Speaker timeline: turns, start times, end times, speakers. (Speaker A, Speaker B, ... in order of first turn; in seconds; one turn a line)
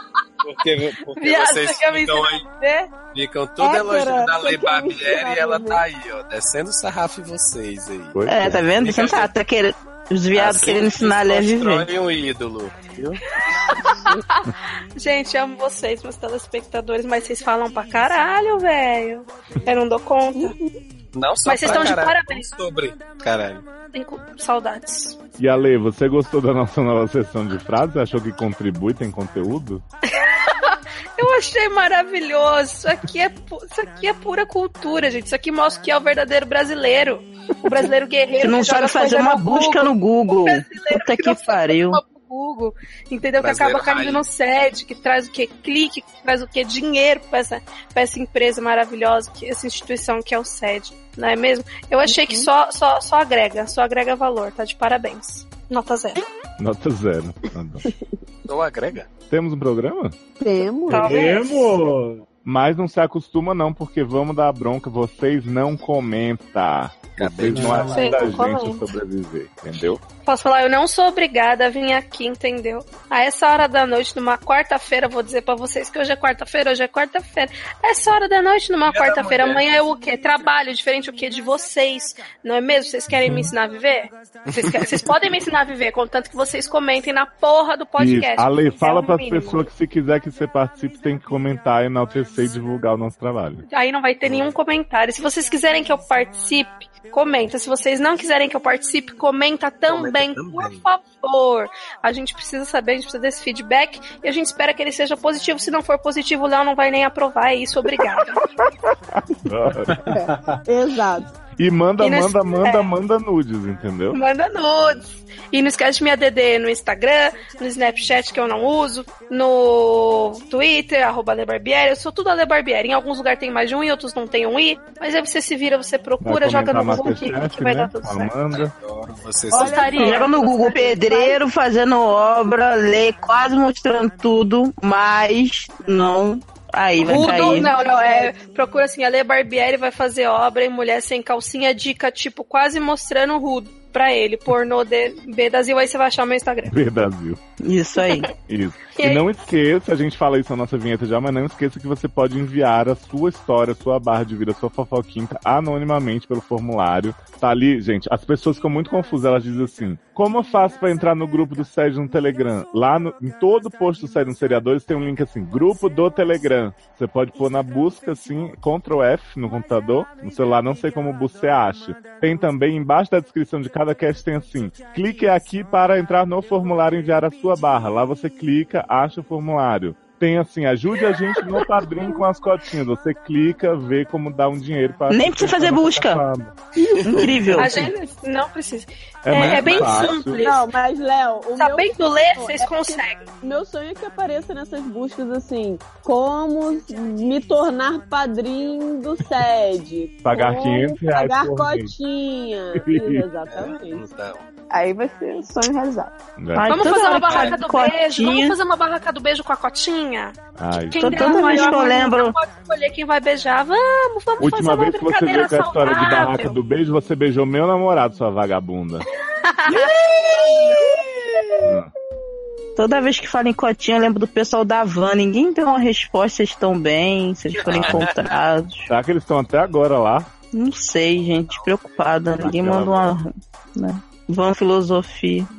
Speaker A: 0.4-2.5
Speaker B: 1.2-2.9
Speaker A: 3.1-8.2
Speaker C: 3.6-5.8
Speaker D: 8.1-8.6
Speaker E: 8.3-11.9
Speaker A: 8.8-9.3
Speaker A: 10.3-13.2
Speaker B: 13.4-20.6
Speaker C: 20.3-20.8
Speaker A: 21.1-23.6
Speaker B: 21.4-22.5
Speaker B: 23.9-25.2
Speaker D: 25.4-29.8
Speaker B: 30.1-56.2
Speaker E: 38.4-42.0
Speaker A: 43.4-44.2
Speaker C: 52.0-52.5
Speaker D: 56.6-57.9
Speaker A: 58.5-59.1
Speaker D: 59.3-60.2
Speaker C: 60.4-61.3
Speaker B: 60.9-61.8
Speaker F: 60.9-62.2
Speaker D: 62.5-70.0
Speaker A: 67.2-68.2
Speaker F: 67.5-68.2
Speaker B: 67.9-68.8
Speaker B: 70.2-89.6
Speaker A: 78.9-79.6
Speaker D: 83.2-83.5
Speaker A: 84.5-85.1
Speaker D: 88.0-93.6
Speaker B: 93.7-108.5
Speaker A: 99.9-100.8
Speaker D: 109.1-110.0
Speaker F: 109.9-110.6
Speaker C: 110.1-111.3
Speaker D: 111.6-114.2
Speaker B: 112.0-112.9
Speaker B: 114.1-128.3
Speaker D: 126.2-128.7
Speaker A: 128.5-130.0
Speaker C: 129.5-130.4
Speaker B: 129.5-131.3
Speaker E: 129.9-137.7
Speaker B: 137.0-146.7
Speaker C: 137.0-138.5
Speaker D: 146.7-147.4
Speaker E: 147.6-148.3
Speaker B: 148.0-148.3
Speaker D: 148.5-186.6
Speaker B: 149.0-149.2
Speaker E: 185.1-186.2
Speaker E: 187.0-187.9
Speaker D: 187.2-187.9
Speaker B: 187.6-190.7
Speaker D: 189.2-190.4
Speaker A: 189.4-190.1
Speaker C: 190.4-204.1
Speaker B: 191.6-193.3
Speaker D: 200.2-201.9
Speaker D: 202.8-203.2
Speaker A: 203.5-204.4
Speaker C: 204.7-206.1
Speaker D: 206.4-206.8
Speaker E: 206.6-208.6
Speaker B: 206.7-210.4
Speaker A: 207.3-207.6
Speaker D: 210.6-211.4
Speaker B: 210.9-216.6
Speaker E: 211.0-212.3
Speaker D: 214.4-219.1
Speaker B: 219.4-220.0
Speaker F: 219.7-221.8
Speaker D: 221.6-221.9
Speaker E: 222.8-228.9
Speaker A: 227.6-228.2
Speaker D: 227.7-228.1
Speaker D: 228.9-230.3
Speaker E: 230.5-235.5
Speaker A: 231.5-232.0
Speaker D: 232.4-233.2